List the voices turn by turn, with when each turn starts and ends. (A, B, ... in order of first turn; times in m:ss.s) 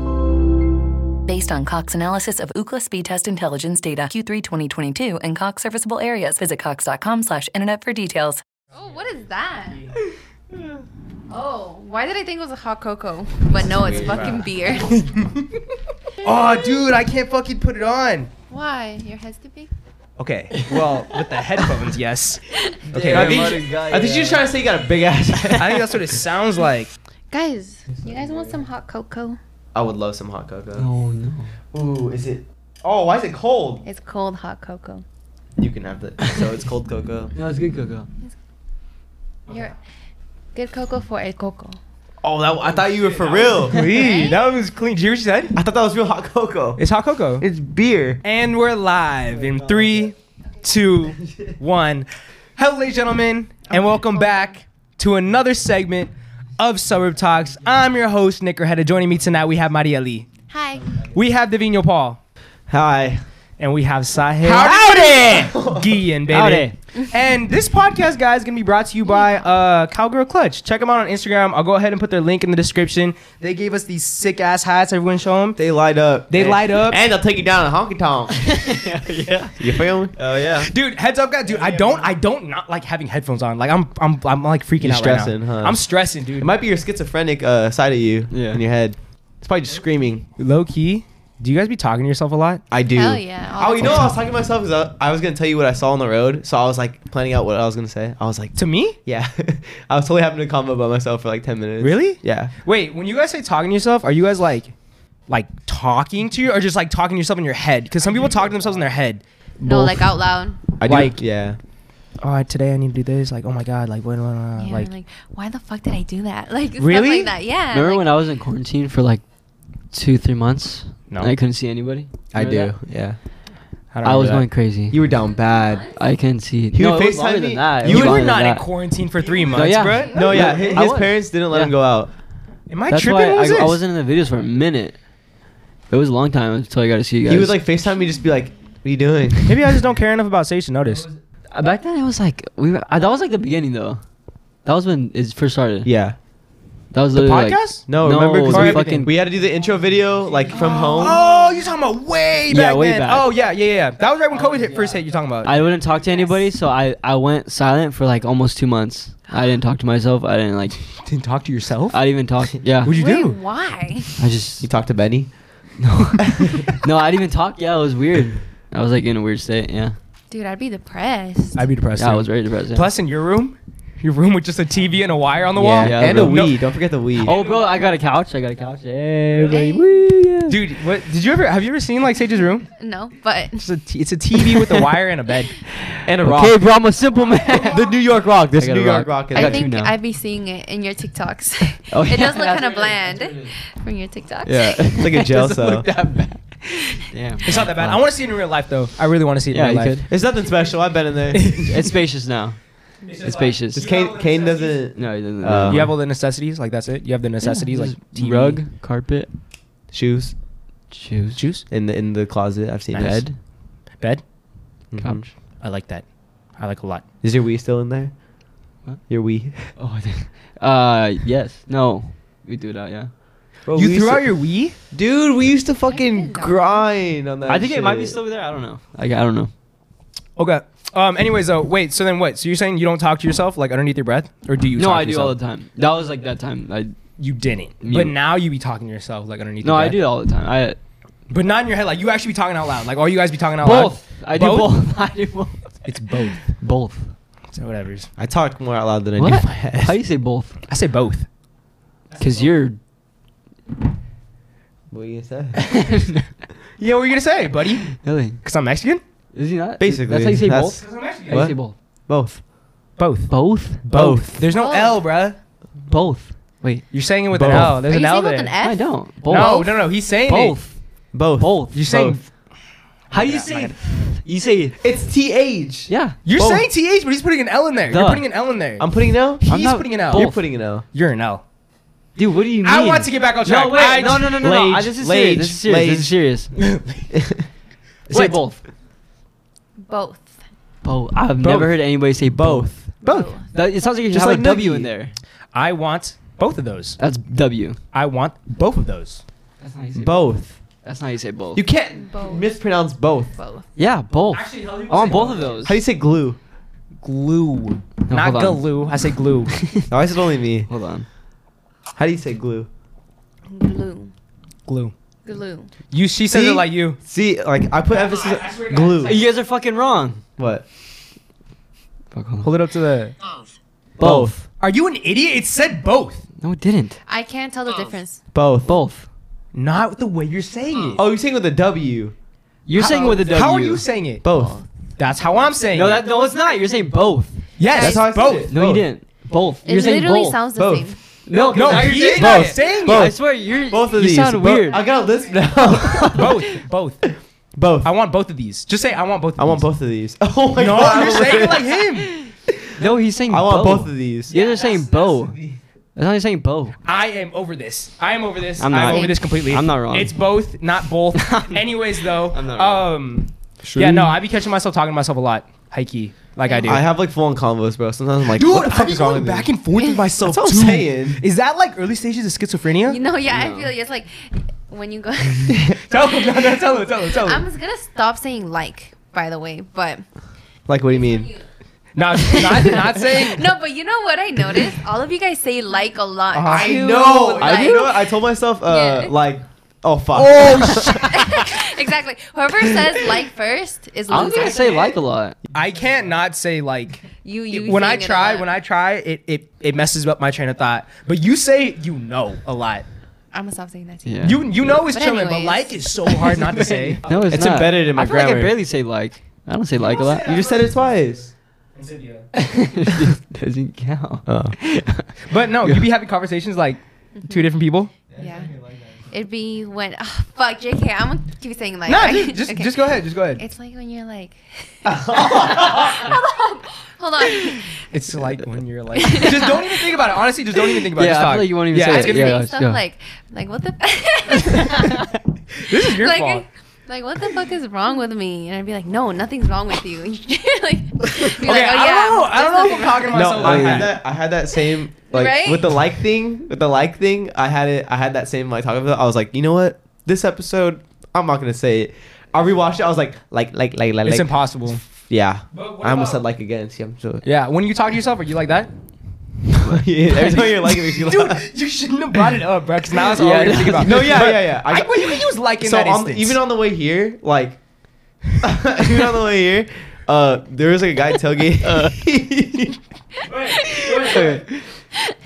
0:01.2-0:08.4 A
0:08.7-0:09.9 B
0:11.3-0:15.0 B
0:13.5-0:14.4 C
0:13.9-0:15.5 D
0:16.2-0:18.3 D
0:16.2-0:16.8 B
0:18.5-0:19.7 B
0:20.2-0:23.6 D
0:22.9-0:26.1 C
0:22.9-0:24.5 E
0:25.6-0:26.9 D
0:27.3-0:29.4 B
0:27.9-0:28.6 C
0:29.7-0:30.9 C
0:30.8-0:31.5 E
0:31.7-0:33.8 C
0:33.8-0:35.0 B
0:35.6-0:37.3 C
0:37.3-0:38.1 E
0:39.5-0:39.7 B
0:40.5-0:41.8 B
0:42.2-0:43.8 C
0:42.8-0:45.5 D
0:43.9-0:44.4 B
0:45.5-0:46.8 C
0:46.8-0:47.4 D
0:47.4-0:48.2 C
0:48.2-1:00.3 D
0:49.3-0:50.1 C
0:53.7-0:54.4 B
1:00.5-1:00.9 B
1:01.1-1:02.2 D
1:02.7-1:03.2 C
1:03.6-1:15.6 D
1:04.4-1:06.0 C
1:04.5-1:05.1 E
1:06.3-1:06.8 E
1:15.6-1:18.7 C
1:16.3-1:17.0 D
1:18.4-1:19.6 E
1:19.6-1:20.7 C
1:20.6-1:26.5 D
1:21.6-1:22.1 C
1:24.8-1:25.8 C
1:26.4-1:30.2 C
1:28.3-1:28.6 E
1:30.4-1:32.6 D
1:32.7-1:42.5 C
1:32.9-1:34.2 B
1:38.5-1:39.0 D
1:41.8-1:44.7 D
1:45.3-1:50.1 D
1:49.6-1:50.6 B
1:50.8-1:51.6 C
1:50.8-1:51.2 D
1:52.2-1:54.9 D
1:54.6-1:58.1 B
1:56.8-1:57.3 D
1:57.7-1:59.2 E
1:59.9-2:02.8 E
2:02.3-2:03.2 C
2:03.9-2:04.4 D
2:04.0-2:05.0 E
2:04.9-2:05.8 C
2:05.2-2:06.0 B
2:05.9-2:08.7 E
2:06.7-2:08.3 C
2:07.8-2:10.8 D
2:09.5-2:11.7 E
2:10.1-2:12.1 C
2:12.7-2:13.8 D
2:12.9-2:15.0 E
2:15.9-2:17.6 E
2:17.2-2:19.7 C
2:19.4-2:21.1 D
2:21.5-2:24.0 E
2:24.6-2:25.9 E
2:25.8-2:26.2 C
2:26.9-2:29.1 E
2:27.1-2:27.8 D
2:27.9-2:31.2 C
2:28.4-2:29.1 D
2:30.5-2:31.4 B
2:30.6-2:35.6 D
2:32.5-2:33.3 E
2:35.4-2:40.8 E
2:41.0-2:42.0 D
2:41.9-2:42.9 E
2:42.8-2:43.4 D
2:42.9-2:44.1 B
2:44.2-2:44.7 E
2:44.6-2:45.3 C
2:45.8-2:50.0 E
2:46.3-2:46.8 C
2:50.3-2:51.6 B
2:51.5-2:56.6 D
2:52.0-2:52.9 E
2:55.6-2:57.4 C
2:55.7-2:56.5 E
2:57.2-3:00.6 E
2:57.2-2:57.8 D
2:59.5-3:00.0 B
3:00.5-3:02.7 D
3:02.8-3:03.6 B
3:03.6-3:05.6 D
3:06.0-3:06.6 C
3:06.0-3:09.9 E
3:06.2-3:06.5 D
3:07.5-3:09.7 C
3:09.3-3:15.3 B
3:11.9-3:13.5 E
3:14.4-3:16.4 E
3:15.0-3:15.9 C
3:17.0-3:18.0 E
3:17.4-3:20.0 D
3:19.5-3:20.0 E
3:20.1-3:21.7 C
3:21.3-3:21.8 D
3:21.4-3:23.9 E
3:23.0-3:24.9 D
3:23.7-3:25.9 C
3:24.9-3:25.9 E
3:25.5-3:28.6 D
3:27.4-3:29.3 E
3:29.9-3:30.3 C
3:30.9-3:31.4 E
3:31.3-3:31.6 D
3:31.7-3:33.2 C
3:32.9-3:33.2 D
3:34.9-3:35.3 C
3:35.6-3:36.0 D
3:36.6-3:37.0 D
3:37.2-3:38.1 C
3:39.1-3:39.7 C
3:39.8-3:43.1 E
3:43.6-3:44.3 C
3:43.7-3:44.8 D
3:44.9-3:48.2 C
3:45.9-3:46.9 B
3:47.4-3:49.5 E
3:50.4-3:55.4 D
3:54.8-3:57.0 E
3:57.2-4:00.0 D
3:57.8-3:58.1 E
3:59.6-4:00.8 E
4:01.3-4:04.7 D
4:03.6-4:07.1 E
4:05.8-4:06.5 D
4:07.5-4:08.1 D
4:08.2-4:10.0 C
4:09.2-4:10.6 E
4:10.7-4:11.3 D
4:12.1-4:12.5 D
4:12.2-4:12.8 E
4:14.9-4:15.6 C
4:15.6-4:16.3 E
4:16.8-4:19.0 D
4:17.9-4:18.4 E
4:19.3-4:21.7 E
4:19.8-4:22.4 C
4:20.8-4:21.5 D
4:23.0-4:25.4 D
4:23.3-4:24.2 E
4:23.9-4:24.4 C
4:24.5-4:25.0 B
4:25.9-4:26.8 E
4:26.9-4:28.5 D
4:27.3-4:27.8 C
4:27.8-4:29.8 B
4:28.6-4:30.8 E
4:29.2-4:30.6 D
4:31.1-4:32.2 C
4:31.4-4:32.0 E
4:31.7-4:32.3 D
4:33.1-4:33.8 D
4:33.1-4:34.8 E
4:34.8-4:36.7 C
4:35.9-4:36.2 E
4:36.2-4:38.9 D
4:37.9-4:38.2 E
4:38.8-4:39.4 C
4:39.4-4:40.3 D
4:39.5-4:40.4 E
4:40.1-4:40.8 C
4:40.8-4:41.4 D
4:42.2-4:46.6 E
4:42.6-4:44.4 D
4:44.2-4:46.1 C
4:46.6-4:47.1 D
4:47.1-4:47.4 C
4:48.1-4:48.6 E
4:49.8-4:50.4 B
4:50.8-4:55.1 E
4:51.4-4:51.8 D
4:52.3-4:53.3 C
4:53.0-4:53.4 B
4:54.1-4:54.9 C
4:55.5-4:57.0 D
4:57.0-4:57.8 E
4:57.9-4:59.2 D
4:59.6-5:01.6 E
5:00.0-5:00.6 C
5:01.5-5:03.3 C
5:02.0-5:02.5 B
5:03.4-5:03.6 B
5:03.8-5:05.8 E
5:04.3-5:05.8 D
5:05.6-5:06.4 C
5:07.0-5:09.5 D
5:08.0-5:08.8 E
5:09.5-5:09.9 E
5:09.9-5:10.7 C
5:10.7-5:11.1 E
5:12.0-5:12.7 C
5:13.5-5:14.1 B
5:14.6-5:14.9 D
5:15.2-5:15.7 B
5:15.9-5:17.0 D
5:16.3-5:19.2 C
5:17.9-5:19.2 D
5:19.0-5:20.2 E
5:20.4-5:20.6 C
5:22.1-5:22.5 E
5:22.4-5:23.2 D
5:24.0-5:24.5 E
5:24.0-5:24.3 C
5:24.6-5:26.2 D
5:26.4-5:27.0 E
5:27.1-5:28.2 B
5:28.3-5:28.7 C
5:28.6-5:29.1 E
5:29.5-5:31.0 D
5:30.9-5:32.1 C
5:32.6-5:33.8 E
5:32.7-5:34.3 D
5:34.2-5:34.6 C
5:34.3-5:34.6 B
5:35.0-5:36.0 D
5:35.7-5:37.4 E
5:37.6-5:38.5 D
5:37.7-5:38.9 C
5:37.7-5:38.1 B
5:38.5-5:40.4 E
5:39.6-5:41.0 B
5:40.6-5:40.9 C
5:41.3-5:44.8 E
5:41.5-5:43.1 D
5:41.5-5:46.4 C
5:46.1-5:47.0 D
5:47.5-5:47.9 C
5:47.8-5:49.6 D
5:49.4-5:51.9 C
5:50.6-5:52.1 D
5:52.8-5:55.4 E
5:53.3-5:54.4 C
5:54.3-5:54.7 B
5:54.4-5:54.8 D
5:56.0-5:56.8 E
5:56.8-6:06.8 D
5:58.6-6:00.2 E
5:58.8-5:59.2 B
6:01.2-6:01.6 E
6:02.2-6:02.9 E
6:03.6-6:04.1 C
6:06.4-6:06.8 B
6:06.6-6:09.5 C
6:08.3-6:13.0 D
6:10.1-6:11.2 C
6:12.9-6:20.0 B
6:13.3-6:13.7 E
6:15.7-6:17.4 D
6:20.7-6:21.3 C
6:21.0-6:21.4 B
6:22.0-6:23.5 D
6:22.2-6:28.1 B
6:26.3-6:31.4 C
6:27.4-6:27.9 E
6:28.6-6:29.2 B
6:30.1-6:31.3 D
6:30.9-6:34.8 B
6:34.1-6:35.4 E
6:34.1-6:35.0 D
6:35.5-6:42.8 D
6:37.2-6:38.5 B
6:43.3-6:46.7 B
6:44.0-6:44.4 E
6:44.2-6:47.0 D
6:47.0-6:50.4 E
6:47.1-6:48.6 C
6:49.9-6:50.9 D
6:50.0-6:51.3 C
6:51.8-6:52.3 D
6:52.4-6:55.1 E
6:54.3-6:54.6 C
6:55.3-6:57.9 D
6:57.2-6:57.4 B
6:58.2-6:58.5 B
6:59.1-7:07.7 B
7:01.9-7:03.4 D
7:04.8-7:06.0 C
7:07.9-7:12.4 D
7:08.9-7:10.0 B
7:10.9-7:12.8 E
7:11.8-7:15.1 B
7:14.3-7:15.2 E
7:15.6-7:16.4 D
7:16.0-7:23.5 B
7:21.3-7:23.9 D
7:23.1-7:37.2 C
7:23.4-7:23.9 E
7:24.6-7:25.6 B
7:34.0-7:34.8 D
7:35.5-7:36.2 D
7:37.2-7:38.7 D
7:39.6-7:41.5 C
7:40.1-7:40.7 E
7:40.8-7:46.4 D
7:43.0-7:44.3 E
7:43.8-7:47.6 C
7:48.4-7:52.8 C
7:53.3-7:54.4 D
7:53.3-7:54.4 B
7:54.0-7:54.6 E